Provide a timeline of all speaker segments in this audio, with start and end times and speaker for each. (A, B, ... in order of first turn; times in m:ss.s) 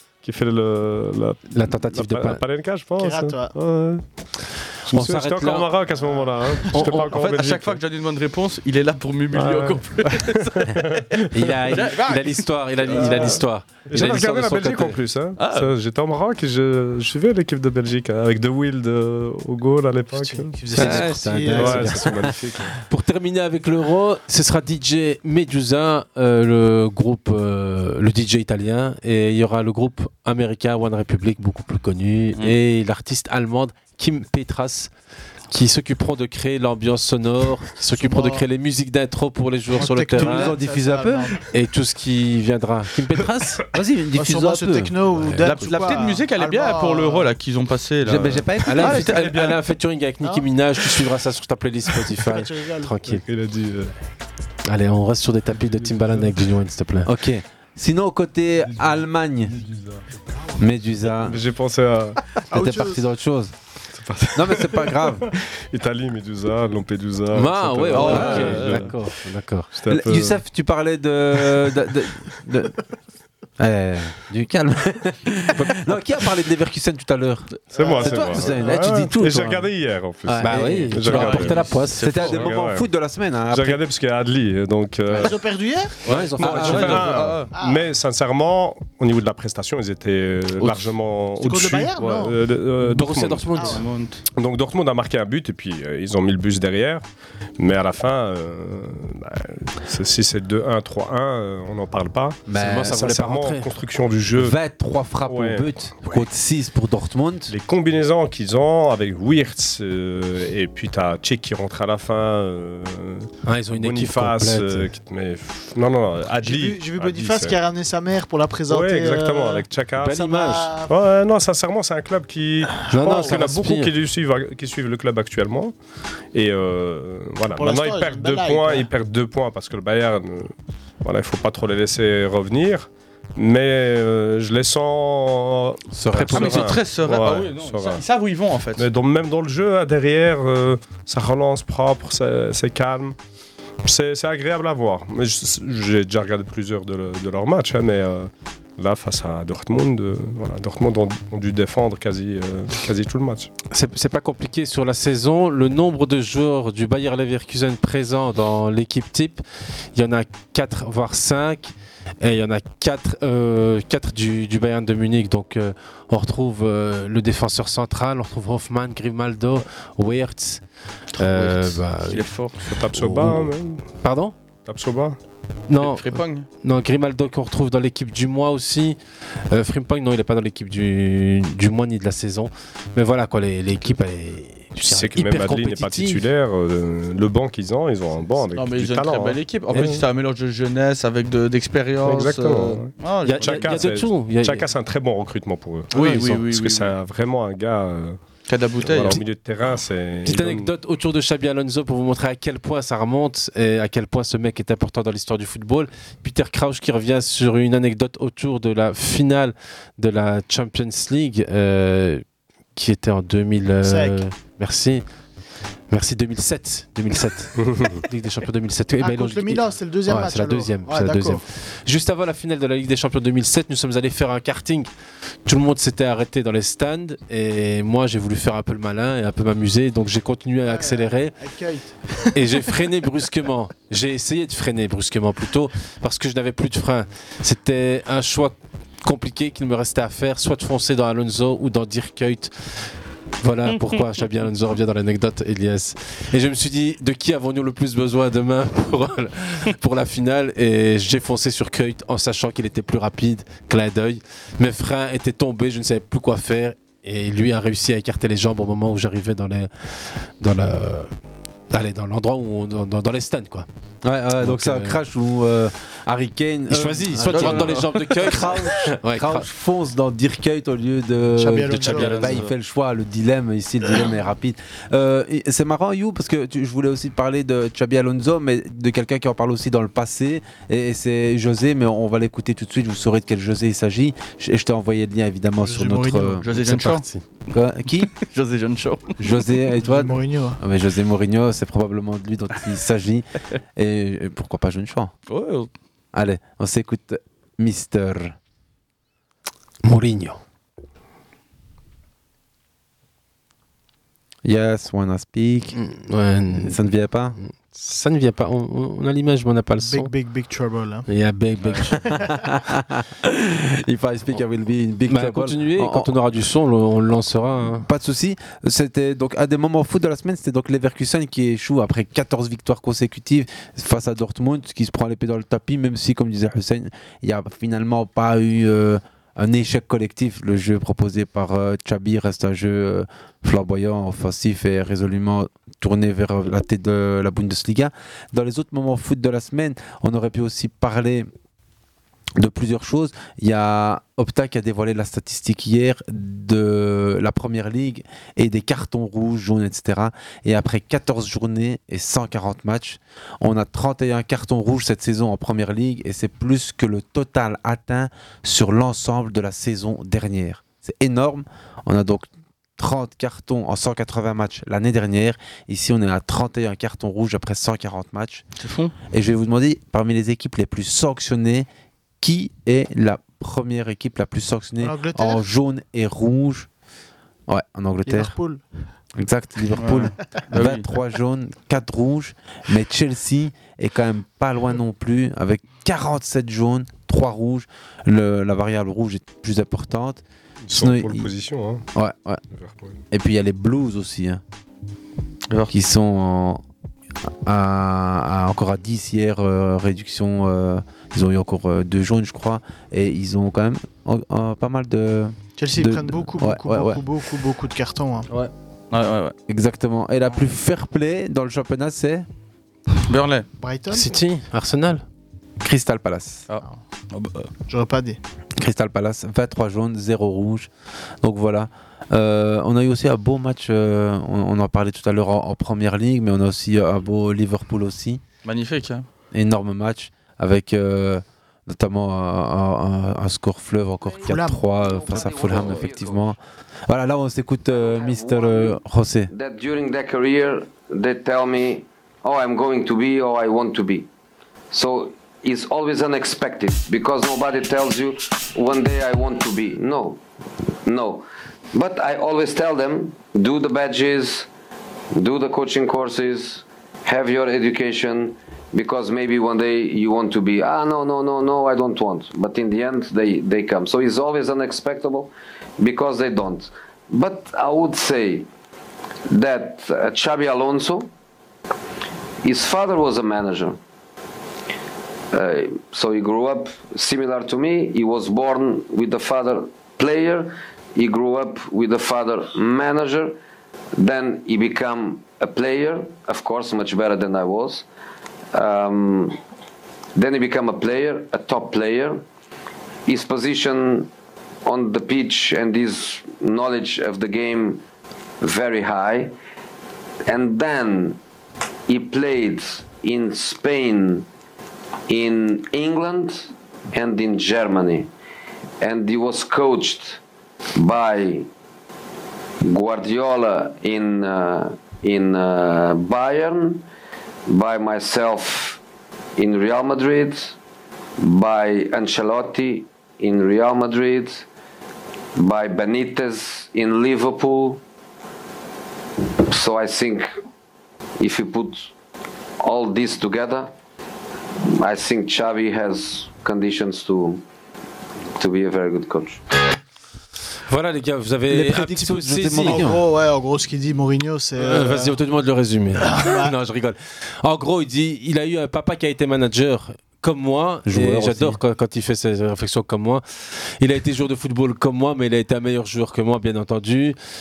0:00.2-0:04.0 A
0:01.5-0:02.4 B
0:03.0-0:03.5 C
0:04.8-0:07.8 A
0:04.9-0:05.7 D
0:04.9-0:05.6 B
0:06.7-0:07.1 B
0:07.1-0:10.6 E
0:09.3-0:11.6 A
0:11.3-0:12.1 D
0:11.4-0:15.0 B
0:11.7-0:13.2 E
0:12.9-0:22.8 A
0:15.4-0:15.7 E
0:20.1-0:22.0 C
0:20.8-0:22.0 B
0:20.8-0:22.7 D
0:22.9-0:34.9 B
0:35.5-0:40.6 B
0:37.9-0:38.4 C
0:39.7-0:41.4 C
0:40.1-0:41.3 D
0:41.5-0:43.6 B
0:43.7-0:44.9 D
0:44.1-0:47.3 C
0:45.1-0:45.8 B
0:45.4-0:49.6 E
0:48.0-0:49.2 D
0:48.6-0:53.2 B
0:52.2-0:52.9 C
0:53.1-0:53.9 A
0:54.6-0:57.1 B
0:57.0-0:59.6 D
1:00.6-1:01.4 D
1:01.2-1:02.3 A
1:02.5-1:03.0 C
1:02.5-1:03.5 D
1:03.9-1:08.9 A
1:04.3-1:05.3 D
1:07.3-1:09.7 B
1:07.8-1:08.8 D
1:07.9-1:08.9 E
1:09.7-1:10.4 A
1:09.9-1:12.8 D
1:13.6-1:19.7 D
1:17.7-1:18.9 C
1:17.7-1:22.9 A
1:20.2-1:21.3 D
1:20.4-1:22.2 B
1:21.0-1:22.5 E
1:22.0-1:23.8 D
1:23.5-1:25.4 A
1:25.2-1:25.9 C
1:26.0-1:27.5 E
1:26.0-1:27.3 D
1:26.4-1:33.6 A
1:27.5-1:27.9 C
1:30.6-1:30.9 E
1:31.4-1:32.4 C
1:32.0-1:32.3 E
1:32.8-1:33.8 B
1:33.6-1:33.8 C
1:33.6-1:34.2 E
1:34.3-1:37.0 A
1:37.6-1:44.6 A
1:42.5-1:43.0 D
1:42.5-1:43.8 B
1:44.3-1:47.5 D
1:45.2-1:46.2 A
1:47.5-1:57.6 A
1:53.4-1:54.9 B
1:56.4-1:59.6 C
1:58.7-2:05.7 A
2:00.0-2:00.7 B
2:00.2-2:00.9 C
2:02.9-2:03.9 B
2:03.1-2:03.3 C
2:06.3-2:18.0 A
2:07.6-2:08.9 C
2:15.9-2:16.8 D
2:16.3-2:18.9 E
2:18.8-2:23.2 A
2:23.8-2:33.5 A
2:33.7-2:39.4 B
2:39.9-2:50.6 B
2:51.1-2:52.6 E
2:51.2-2:52.3 B
2:52.6-2:53.8 A
2:52.9-2:53.5 B
2:54.0-2:54.3 B
2:54.6-2:55.2 A
2:55.7-2:59.0 B
2:55.8-2:56.4 E
2:59.5-3:06.2 B
3:04.8-3:10.0 A
3:08.5-3:13.8 E
3:12.0-3:18.2 A
3:13.2-3:14.7 B
3:15.9-3:16.9 E
3:15.9-3:16.2 B
3:18.5-3:19.2 E
3:18.8-3:20.7 A
3:20.2-3:32.2 B
3:32.7-3:35.0 B
3:33.8-3:34.2 C
3:35.9-3:44.9 B
3:37.6-3:38.0 A
3:39.0-3:41.4 C
3:45.4-3:51.4 B
3:50.7-3:52.4 C
3:52.3-4:02.5 B
4:03.4-4:19.7 B
4:20.4-4:21.1 B
4:21.7-4:23.7 B
4:24.0-4:46.9 D
4:24.4-4:25.0 B
4:26.7-4:29.4 B
4:27.3-4:28.3 E
4:31.4-4:32.3 C
4:31.7-4:32.5 B
4:45.6-4:46.4 C
4:46.4-4:47.0 E
4:46.6-4:47.2 B
4:47.5-4:48.1 D
4:48.1-4:49.1 E
4:49.2-4:55.1 D
4:49.8-4:50.6 C
4:55.3-4:55.7 E
4:56.1-4:58.4 D
4:59.8-5:00.4 B
5:04.4-5:05.8 D
5:05.7-5:06.8 B
5:06.5-5:07.4 D
5:07.4-5:10.1 B
5:09.8-5:11.1 C
5:11.1-5:12.0 B
5:11.9-5:12.3 C
5:12.1-5:16.1 D
5:15.1-5:17.9 B
5:17.7-5:41.3 D
5:42.4-6:08.4 D
6:08.6-6:08.9 E
6:09.1-6:11.7 D
6:12.2-6:16.7 D
6:14.8-6:15.4 C
6:17.5-6:18.3 D
6:18.0-6:18.6 C
6:19.2-6:31.3 D
6:19.8-6:20.8 E
6:30.6-6:31.8 A
6:31.9-6:32.4 D
6:32.6-6:33.0 A
6:33.1-6:34.4 D
6:35.7-6:36.6 D
6:37.4-6:47.0 D
6:45.6-6:48.3 C
6:48.9-6:49.3 E
6:49.5-6:52.3 D
6:53.1-6:53.5 E
6:53.6-6:54.1 C
6:53.9-6:55.0 B
6:55.6-6:56.4 D
6:56.5-6:57.5 E
6:57.7-6:58.2 C
6:58.6-7:00.7 D
7:01.2-7:08.2 D
7:08.4-7:09.0 E
7:09.3-7:19.3 D
7:14.0-7:16.4 F
7:14.2-7:14.6 C
7:17.7-7:18.8 F
7:19.3-7:24.0 F
7:24.7-7:30.2 F
7:30.8-7:34.5 F
7:35.1-7:48.5 F
7:49.3-7:51.1 F
7:52.4-7:53.8 F
7:55.3-8:03.3 F
8:04.0-8:07.8 F
8:08.5-8:09.4 F
8:10.2-8:12.2 F
8:13.1-8:14.1 F
8:14.6-8:17.8 F
8:18.4-8:19.3 F
8:20.3-8:21.2 F
8:21.9-8:24.3 F
8:25.1-8:28.1 F
8:28.8-8:30.2 F
8:30.8-8:31.5 F
8:32.6-8:36.8 F
8:37.5-8:38.8 F
8:39.4-8:40.5 F
8:41.2-8:44.4 F
8:45.4-8:47.8 F
8:49.5-8:50.3 F
8:51.2-8:51.9 F
8:52.6-8:53.7 F
8:54.8-8:57.4 F
8:58.4-8:59.4 F
9:00.7-9:02.9 B
9:01.5-9:03.0 D
9:02.5-9:05.2 C
9:04.6-9:13.2 B
9:06.0-9:06.5 C
9:10.9-9:11.6 D
9:13.8-9:17.2 B